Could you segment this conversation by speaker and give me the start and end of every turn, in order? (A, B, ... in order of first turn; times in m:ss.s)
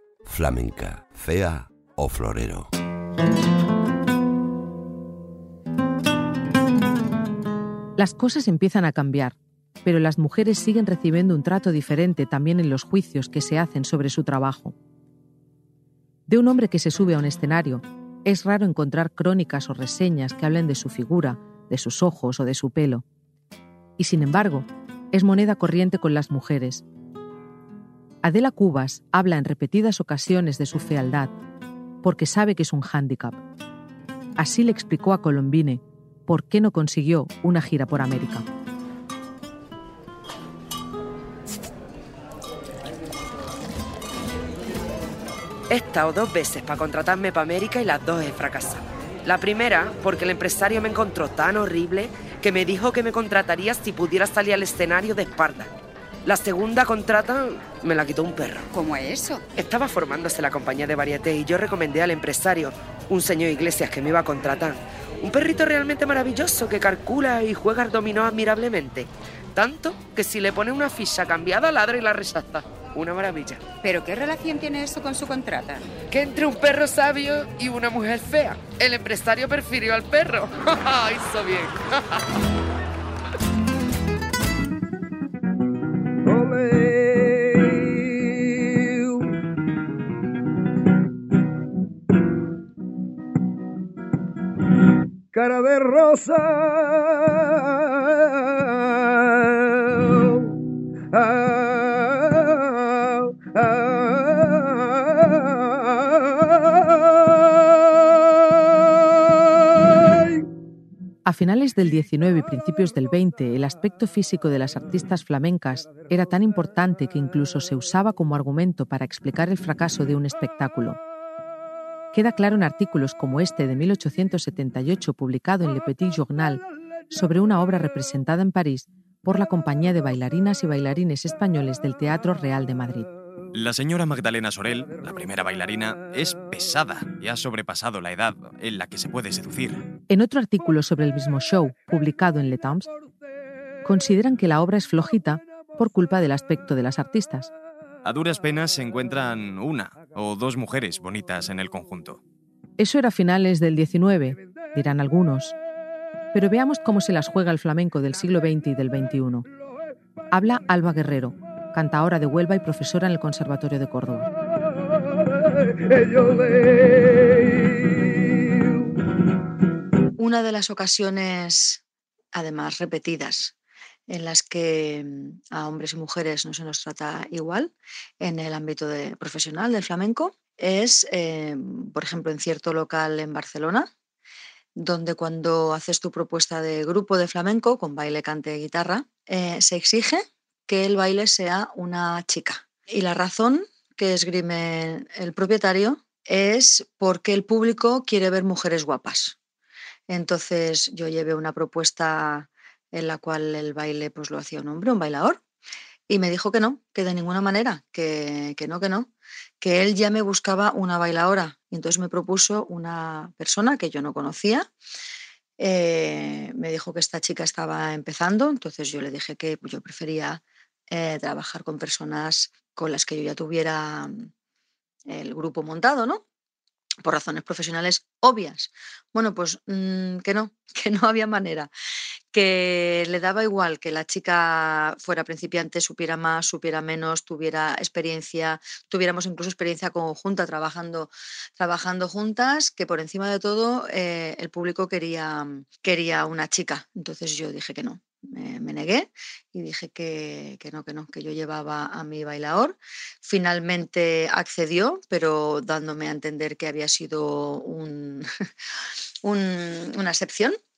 0:00.2-0:02.7 A
0:08.0-0:14.7 B
0:16.3-0:23.0 B
0:24.0-0:26.8 B
0:28.2-0:31.3 B
0:32.0-0:33.4 B
0:34.4-0:38.5 B
0:45.7-0:55.7 C
0:56.3-0:58.7 C
0:58.7-0:59.4 D
0:59.6-1:13.6 C
1:13.8-1:15.9 D
1:16.1-1:21.8 C
1:51.2-2:01.0 B
2:02.1-2:13.1 B
2:13.5-2:19.8 E
2:20.1-2:22.9 B
2:23.8-2:27.5 B
2:28.0-2:32.2 E
2:32.8-2:35.6 B
2:36.3-2:39.5 B
2:40.3-2:44.3 B
2:50.2-2:51.8 F
2:52.3-2:53.5 F
2:54.1-3:03.9 F
3:04.8-3:19.4 F
3:20.1-3:25.4 F
3:26.1-3:29.1 F
3:29.6-3:34.7 F
3:35.6-3:44.3 F
3:45.1-3:46.2 F
3:47.0-3:51.7 F
3:52.3-4:18.3 F
4:19.2-4:20.6 F